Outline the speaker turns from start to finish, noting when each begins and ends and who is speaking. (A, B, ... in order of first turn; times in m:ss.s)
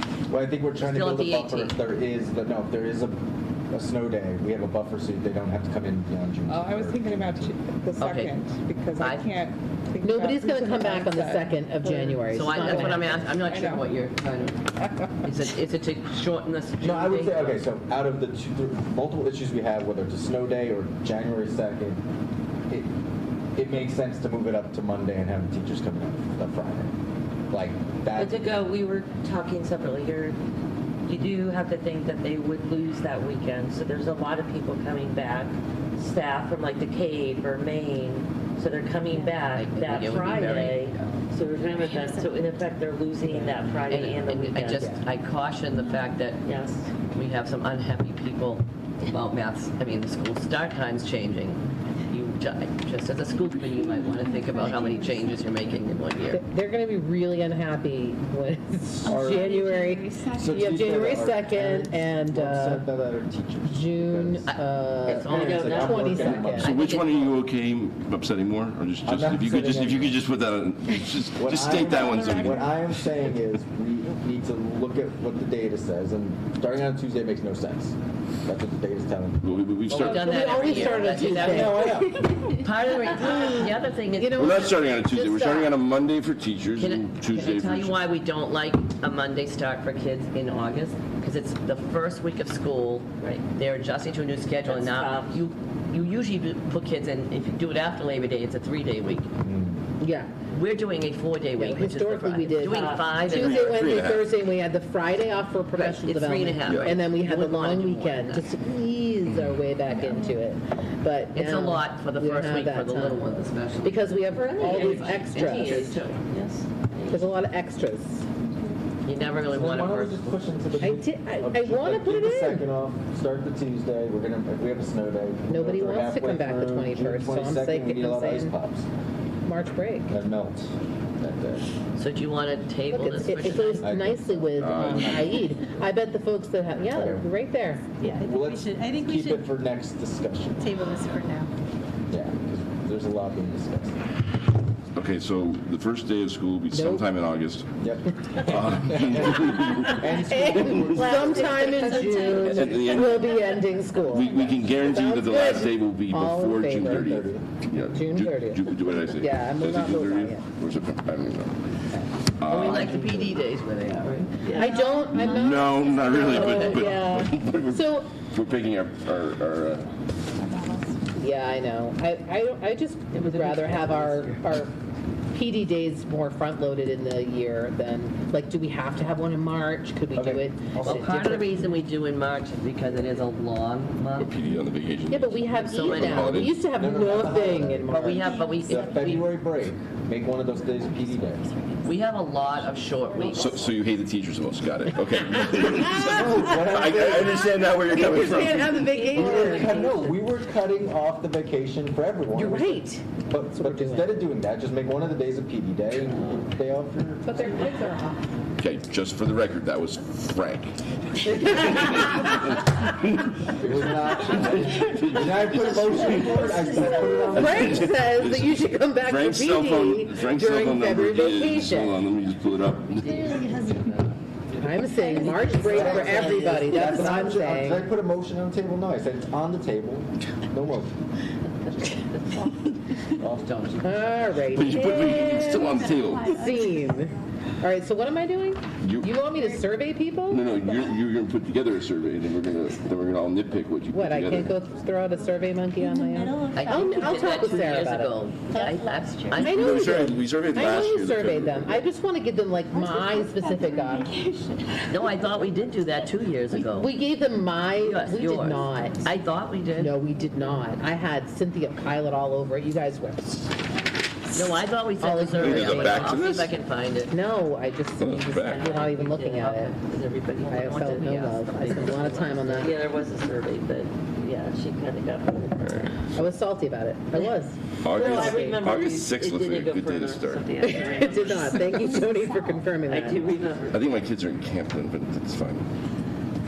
0:00.3-0:03.2 A
0:00.8-0:01.8 B
0:03.7-0:07.5 A
0:06.5-0:13.9 C
0:08.0-0:08.4 B
0:09.0-0:09.3 B
0:10.0-0:13.1 D
0:12.3-0:17.6 B
0:16.8-0:22.0 A
0:23.6-0:26.9 A
0:27.5-0:28.6 A
0:28.2-0:30.4 E
0:31.1-0:45.0 E
0:39.5-0:41.1 B
0:41.8-0:42.2 F
0:43.9-0:46.4 B
0:46.4-0:46.9 E
0:47.1-0:56.4 B
0:54.1-0:55.4 F
0:56.3-1:02.9 D
0:59.0-0:59.6 A
0:59.0-1:00.6 F
1:00.3-1:04.5 A
1:03.6-1:06.8 D
1:04.4-1:05.6 B
1:05.0-1:06.6 E
1:05.2-1:06.7 A
1:06.6-1:07.3 B
1:06.6-1:12.8 G
1:09.0-1:10.2 A
1:11.4-1:19.4 A
1:12.0-1:12.4 F
1:19.4-1:21.2 G
1:19.9-1:24.8 B
1:20.0-1:22.0 D
1:21.3-1:22.4 A
1:24.2-1:25.8 D
1:24.4-1:28.0 G
1:26.8-1:39.3 B
1:33.2-1:33.4 E
1:34.6-1:35.4 E
1:39.4-1:39.8 A
1:40.0-1:40.3 D
1:40.5-1:43.9 B
1:41.6-1:56.0 D
1:42.6-1:43.3 E
1:43.3-1:44.3 G
1:45.8-1:48.5 B
1:46.6-1:47.0 G
1:50.0-1:50.4 F
1:51.3-1:56.2 B
1:54.5-1:57.2 E
1:57.1-1:58.2 D
1:59.0-2:00.4 B
1:59.5-2:08.9 A
2:00.8-2:02.7 D
2:05.5-2:08.6 D
2:09.4-2:10.1 D
2:10.1-2:11.7 A
2:12.0-2:14.0 B
2:12.9-2:17.9 D
2:13.4-2:15.2 A
2:14.6-2:15.4 G
2:16.9-2:17.3 A
2:18.0-2:19.4 F
2:18.0-2:20.7 A
2:20.6-2:21.5 F
2:22.1-2:24.0 A
2:25.0-2:27.7 G
2:26.7-2:27.1 D
2:27.8-2:31.8 A
2:28.4-2:30.1 G
2:30.1-2:37.1 D
2:30.4-2:33.6 F
2:32.4-2:33.4 G
2:34.0-2:41.6 G
2:34.2-2:34.9 F
2:36.9-2:37.4 A
2:37.9-2:40.5 D
2:42.4-2:43.4 G
2:42.5-2:44.7 B
2:44.5-2:48.1 D
2:44.5-2:46.7 F
2:45.0-2:49.9 G
2:46.2-2:46.7 B
2:50.4-2:50.9 F
2:51.2-2:54.7 D
2:53.2-2:54.5 B
2:55.3-3:01.8 D
3:00.1-3:01.3 A
3:00.8-3:04.3 B
3:04.2-3:06.6 G
3:05.1-3:08.4 D
3:05.6-3:06.5 B
3:06.6-3:11.4 A
3:07.9-3:09.4 B
3:08.2-3:09.2 F
3:10.6-3:13.8 F
3:11.8-3:13.7 B
3:13.2-3:19.1 G
3:15.8-3:20.2 D
3:16.1-3:17.4 A
3:19.0-3:27.7 A
3:22.3-3:24.1 D
3:27.2-3:28.3 D
3:28.6-3:43.6 G
3:33.6-3:37.9 A
3:36.5-3:42.0 D
3:37.0-3:37.3 F
3:43.1-3:44.1 B
3:43.3-3:43.8 F
3:44.6-3:47.9 D
3:44.9-3:46.2 F
3:45.6-3:50.9 A
3:53.2-3:53.8 A
3:53.2-3:54.7 B
3:53.8-4:00.5 D
3:54.5-3:56.4 G
3:55.0-3:57.2 F
3:58.8-3:59.2 G
3:59.3-3:59.7 F
4:00.3-4:04.6 G
4:03.9-4:08.6 D
4:05.1-4:07.5 F
4:06.6-4:10.1 B
4:08.5-4:09.4 F
4:09.3-4:14.1 D
4:09.4-4:11.9 G
4:12.7-4:15.5 F
4:14.9-4:16.9 B
4:16.6-4:19.0 D
4:17.8-4:20.0 B
4:19.8-4:23.5 D
4:24.3-4:27.1 B
4:25.0-4:26.1 D
4:25.4-4:26.6 G
4:27.1-4:29.7 D
4:28.0-4:28.7 G
4:28.3-4:35.9 E
4:30.5-4:32.8 D
4:30.6-4:32.7 B
4:35.6-4:35.9 G
4:36.1-4:38.6 D
4:37.8-4:40.6 G
4:37.9-4:42.0 E
4:40.6-4:43.4 D
4:41.8-4:42.7 F
4:42.9-4:43.8 E
4:43.7-4:45.7 G